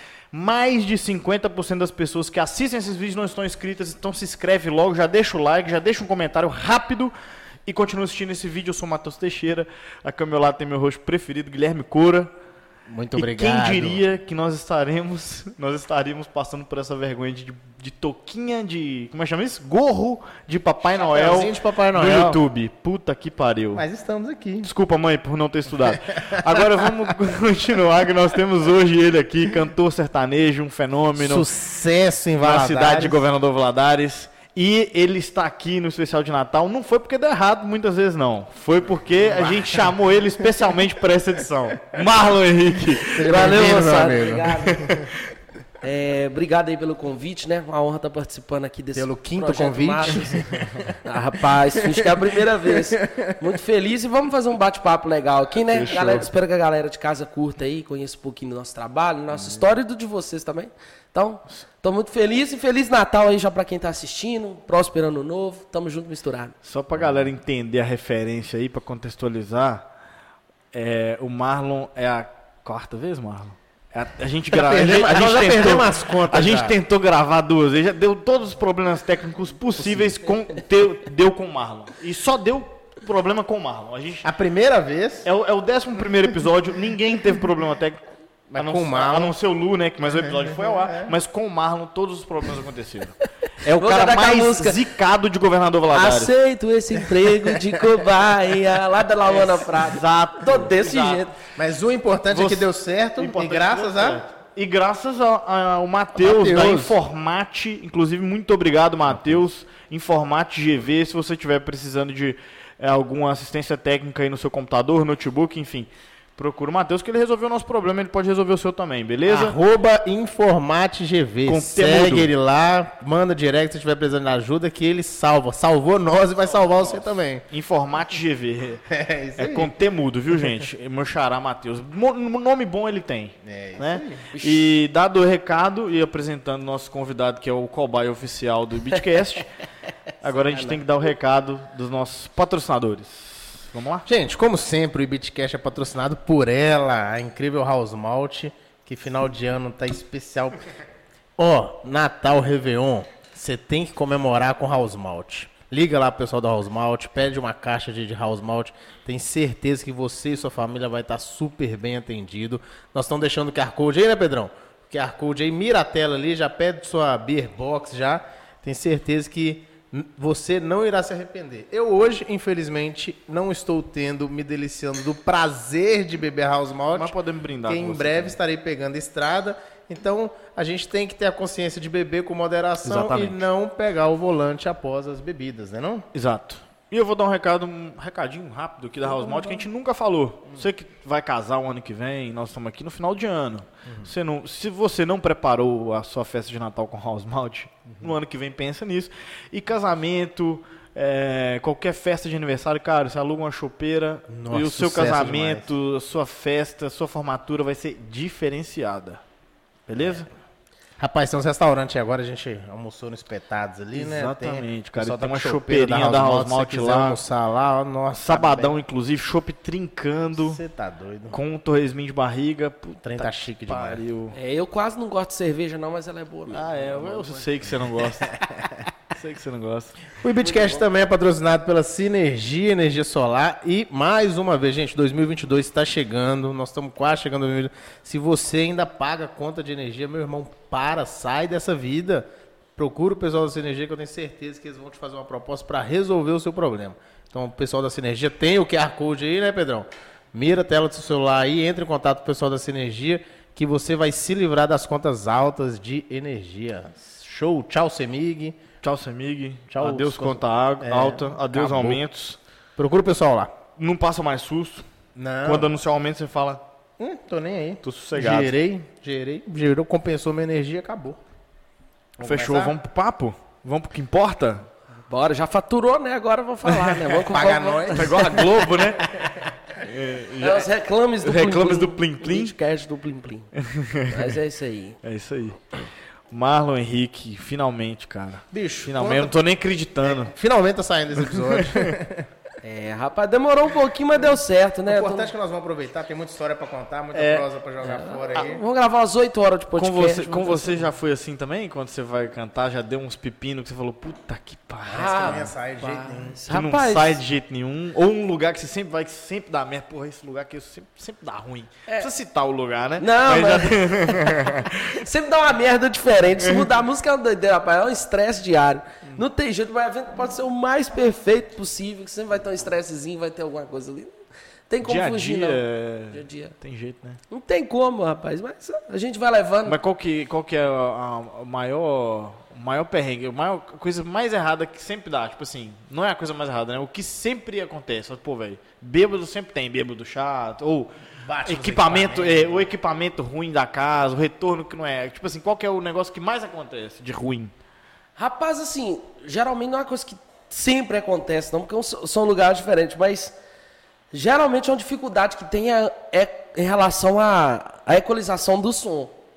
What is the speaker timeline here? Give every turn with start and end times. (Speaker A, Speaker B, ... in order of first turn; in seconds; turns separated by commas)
Speaker A: 0.3-7.1, Speaker A: 7.7-12.3, Speaker B: 12.9-14.0, Speaker A: 13.2-23.8, Speaker B: 20.9-22.4, Speaker B: 23.7-24.7, Speaker A: 24.6-31.5, Speaker B: 31.2-33.2, Speaker A: 32.4-43.8, Speaker B: 39.3-39.9, Speaker C: 43.1-44.9, Speaker B: 43.1-45.1, Speaker C: 45.8-66.5, Speaker B: 48.9-50.9, Speaker B: 51.7-53.3, Speaker A: 55.7-56.3, Speaker A: 66.6-69.8, Speaker A: 70.7-84.3, Speaker B: 74.5-76.8, Speaker B: 79.8-80.2, Speaker B: 84.2-85.3, Speaker A: 85.2-96.3, Speaker B: 88.5-89.3, Speaker B: 90.2-91.1, Speaker C: 93.5-94.8, Speaker C: 95.9-101.3, Speaker B: 97.5-97.8, Speaker A: 99.3-101.3, Speaker B: 101.5-104.2, Speaker A: 102.3-119.6, Speaker B: 106.2-107.0, Speaker B: 119.2-127.5, Speaker A: 121.5-122.3, Speaker A: 126.5-128.8, Speaker B: 128.9-129.7, Speaker A: 129.3-139.5, Speaker B: 133.4-134.3, Speaker C: 134.3-134.7, Speaker A: 140.2-144.1, Speaker B: 144.1-150.6, Speaker B: 151.4-177.2, Speaker A: 176.9-178.4, Speaker B: 177.7-186.1, Speaker A: 182.8-183.4, Speaker A: 186.1-209.2, Speaker B: 189.0-189.7, Speaker B: 204.3-205.7, Speaker A: 209.9-210.3, Speaker B: 211.0-218.8, Speaker A: 213.9-217.2, Speaker A: 218.2-220.6, Speaker B: 220.4-221.4, Speaker A: 221.3-224.3, Speaker B: 223.0-224.0, Speaker C: 224.3-227.4, Speaker A: 226.5-230.1, Speaker B: 230.2-258.6, Speaker C: 230.4-230.8, Speaker A: 258.8-262.4, Speaker B: 259.7-262.0, Speaker B: 262.8-263.6, Speaker A: 263.8-264.9, Speaker B: 265.1-265.7, Speaker A: 265.4-266.6, Speaker B: 267.0-271.2, Speaker A: 267.8-268.5, Speaker B: 272.2-272.8, Speaker A: 272.2-274.7, Speaker C: 275.1-278.6, Speaker A: 276.7-277.2, Speaker B: 277.3-278.4, Speaker A: 277.9-279.1, Speaker A: 279.7-280.7, Speaker C: 280.4-283.5, Speaker A: 281.2-282.5, Speaker A: 283.6-284.3, Speaker C: 284.1-285.0, Speaker A: 285.0-285.7, Speaker A: 286.3-290.3, Speaker B: 288.5-289.4, Speaker B: 290.0-292.3, Speaker A: 291.3-291.9, Speaker C: 292.6-295.3, Speaker B: 294.9-298.6, Speaker A: 297.1-297.5, Speaker C: 297.8-300.8, Speaker A: 299.8-305.5, Speaker B: 304.9-306.4, Speaker C: 305.0-307.2, Speaker A: 306.5-315.0, Speaker C: 313.0-324.1, Speaker C: 324.7-326.5, Speaker A: 324.8-327.2, Speaker C: 327.3-329.8, Speaker A: 329.6-340.9, Speaker B: 341.2-342.7, Speaker A: 341.4-347.5, Speaker C: 348.2-353.3, Speaker C: 354.1-359.1